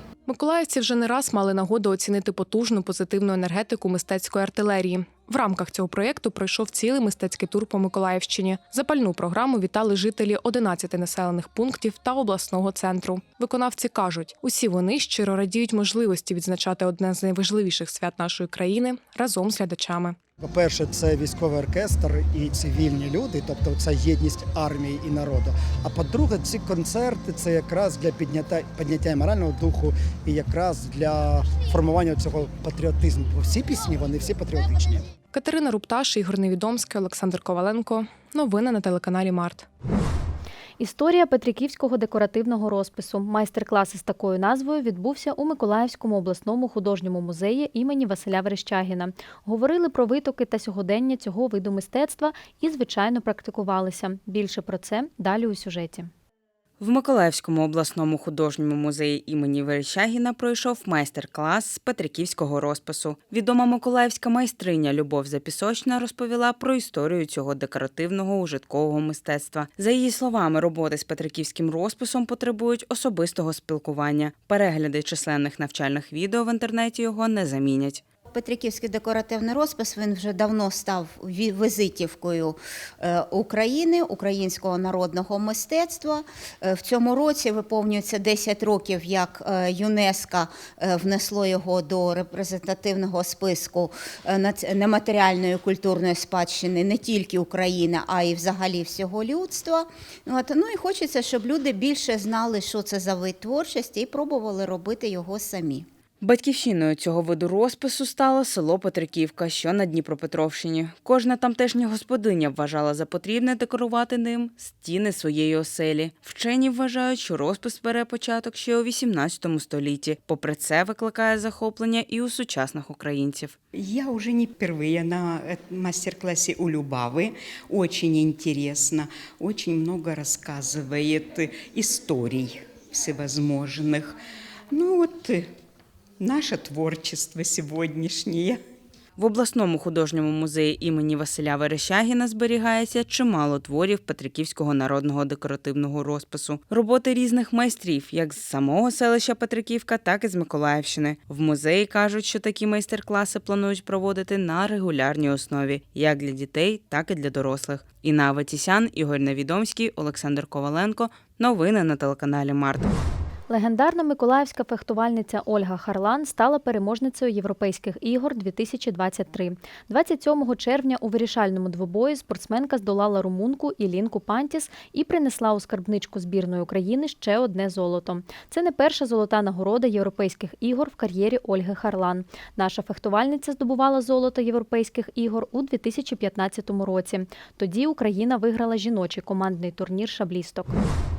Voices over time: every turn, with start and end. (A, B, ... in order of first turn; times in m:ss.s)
0:00.3-0:20.2 A
0:20.4-0:35.0 B
0:35.3-0:39.6 A
0:40.8-0:56.1 C
0:56.8-1:18.0 D
1:18.3-1:45.8 E
1:46.2-2:03.6 D
2:03.7-2:14.2 F
2:14.7-2:15.5 F
2:16.2-2:18.6 F
2:19.2-2:42.9 D
2:43.5-3:10.8 C